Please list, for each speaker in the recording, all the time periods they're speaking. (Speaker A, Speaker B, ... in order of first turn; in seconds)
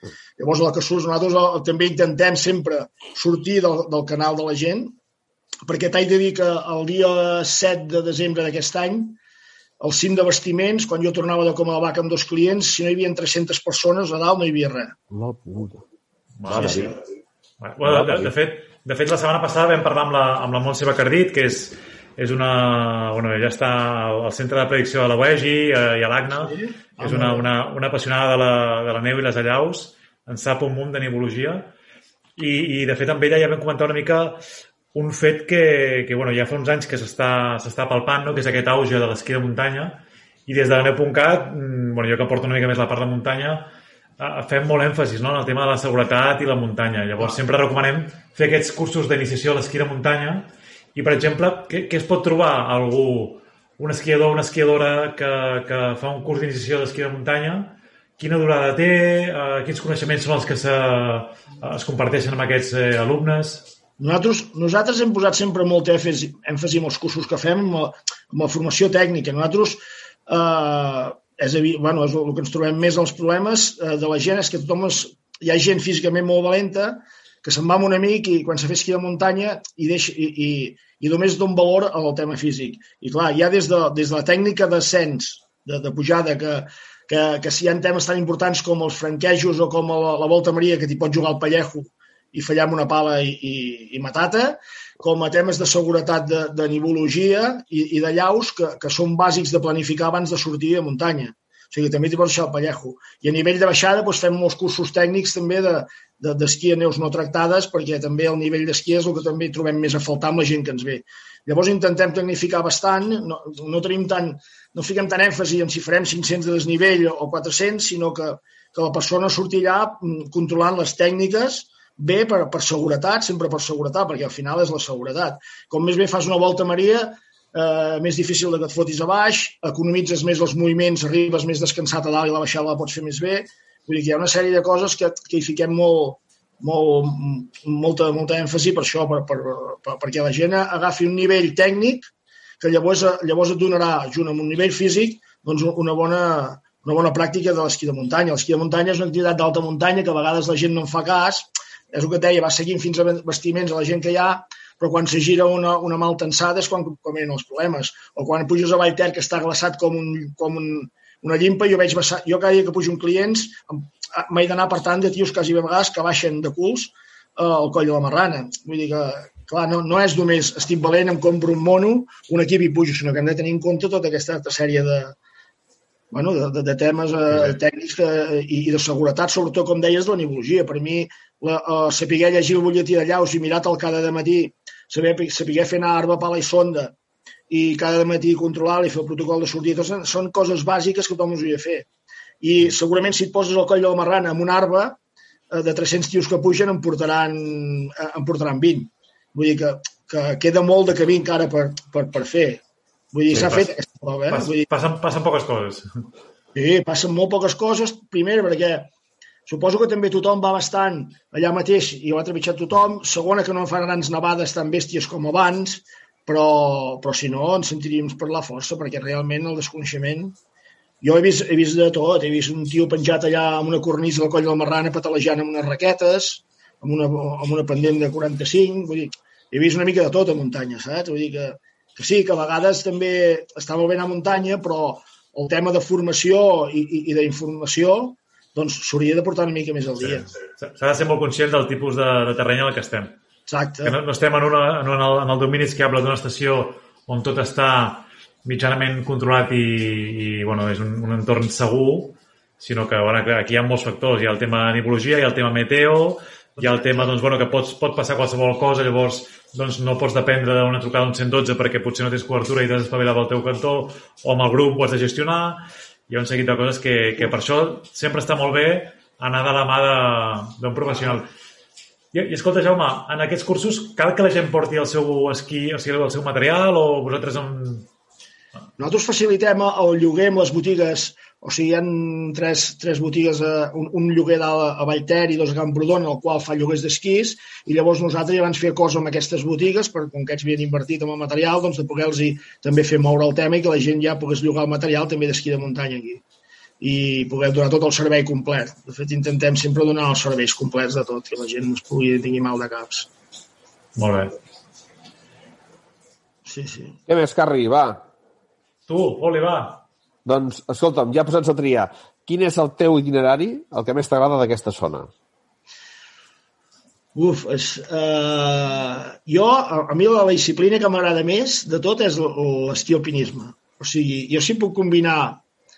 Speaker A: 0.4-5.0, 5.7-9.2, 9.8-14.9, 16.6-16.9, 26.4-27.5, 64.0-175.2, 176.1-186.9, 187.5-191.9, 192.4-195.0, 195.5-202.6, 203.1-204.7, 206.5-208.9, 209.5-220.4, 221.0-240.3, 243.5-243.9, 256.6-257.0, 278.8-296.2, 296.8-303.1, 306.4-307.0, 317.1-325.4
Speaker B: 15.1-15.8, 16.5-16.9, 17.8-18.3, 307.1-308.0, 310.2-315.1
Speaker C: 16.4-16.9, 17.6-31.7, 32.4-34.4, 34.9-63.6, 203.3-203.7, 204.3-205.9, 240.0-243.2, 243.8-271.3, 272.1-277.9, 303.9-304.3, 308.9-309.8